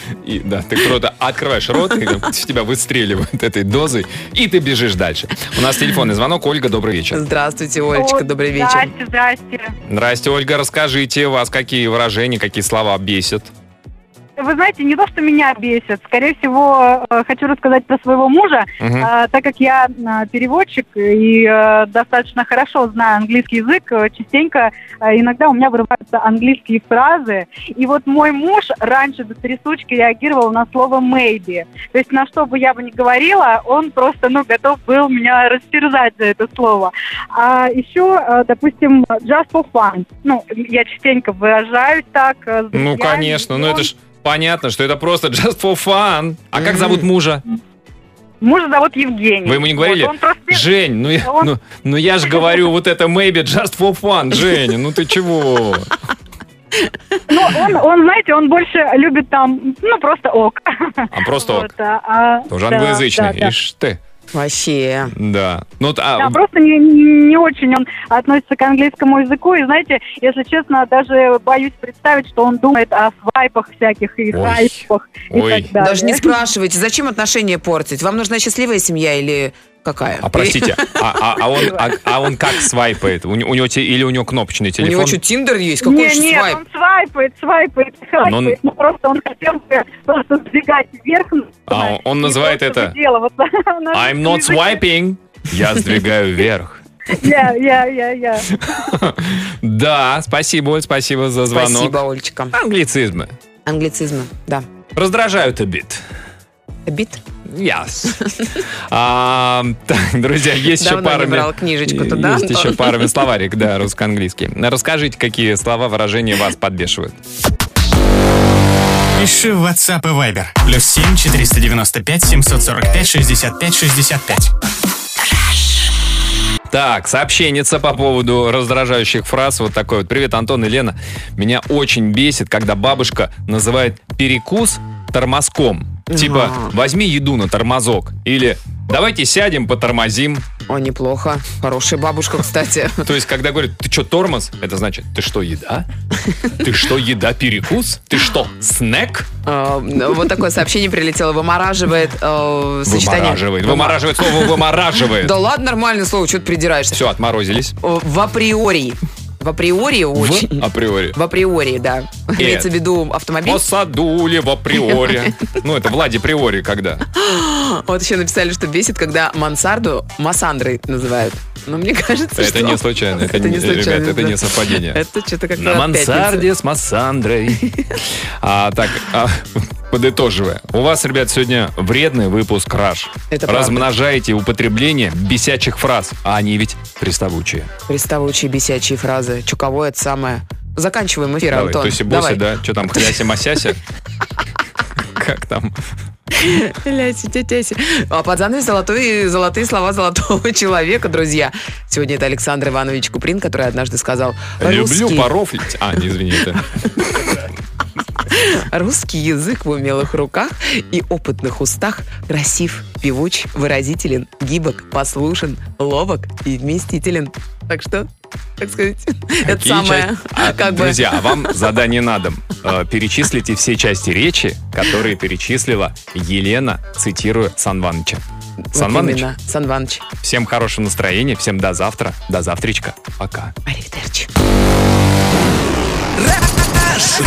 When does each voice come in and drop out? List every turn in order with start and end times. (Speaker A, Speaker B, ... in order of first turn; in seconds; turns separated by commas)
Speaker A: 0.2-7.2, Speaker B: 7.1-8.9, Speaker C: 7.9-9.7, Speaker A: 9.9-13.5, Speaker C: 14.4-43.9, Speaker A: 18.8-19.1, Speaker A: 42.7-47.4, Speaker B: 46.6-47.0, Speaker C: 48.4-50.6, Speaker A: 49.4-55.9, Speaker C: 51.2-51.5, Speaker C: 57.3-63.5, Speaker A: 61.1-61.7, Speaker A: 62.5-64.0, Speaker B: 64.3-65.1, Speaker A: 65.1-66.4, Speaker C: 66.2-76.3, Speaker A: 74.3-75.7, Speaker B: 75.8-81.4, Speaker A: 80.2-85.2, Speaker B: 84.8-86.6, Speaker C: 85.8-94.8, Speaker A: 88.2-88.5, Speaker A: 91.7-93.0, Speaker A: 93.9-96.8, Speaker C: 97.1-98.6, Speaker A: 98.5-103.3, Speaker B: 101.5-102.5, Speaker B: 103.7-104.7, Speaker A: 104.9-106.0, Speaker B: 106.9-107.2, Speaker A: 107.5-108.2, Speaker A: 108.9-117.2, Speaker B: 110.8-113.0, Speaker D: 119.2-124.5, Speaker A: 126.7-140.4, Speaker B: 136.1-136.7, Speaker B: 140.7-143.1, Speaker A: 143.0-145.9, Speaker A: 146.5-149.3, Speaker B: 149.4-157.0, Speaker A: 152.8-155.4, Speaker A: 156.9-157.7, Speaker B: 157.8-163.6, Speaker A: 160.1-161.2, Speaker A: 162.4-162.7, Speaker A: 163.4-167.1, Speaker B: 167.1-176.5, Speaker A: 172.4-175.0, Speaker A: 175.5-187.7, Speaker B: 177.6-178.0, Speaker B: 183.3-183.9, Speaker B: 187.9-192.4, Speaker A: 191.5-193.8, Speaker A: 195.1-195.8, Speaker B: 196.3-205.3, Speaker A: 204.6-207.4, Speaker B: 208.2-221.6, Speaker A: 219.4-228.2, Speaker B: 228.7-230.0, Speaker A: 228.7-229.3, Speaker A: 230.2-233.5, Speaker B: 233.7-234.3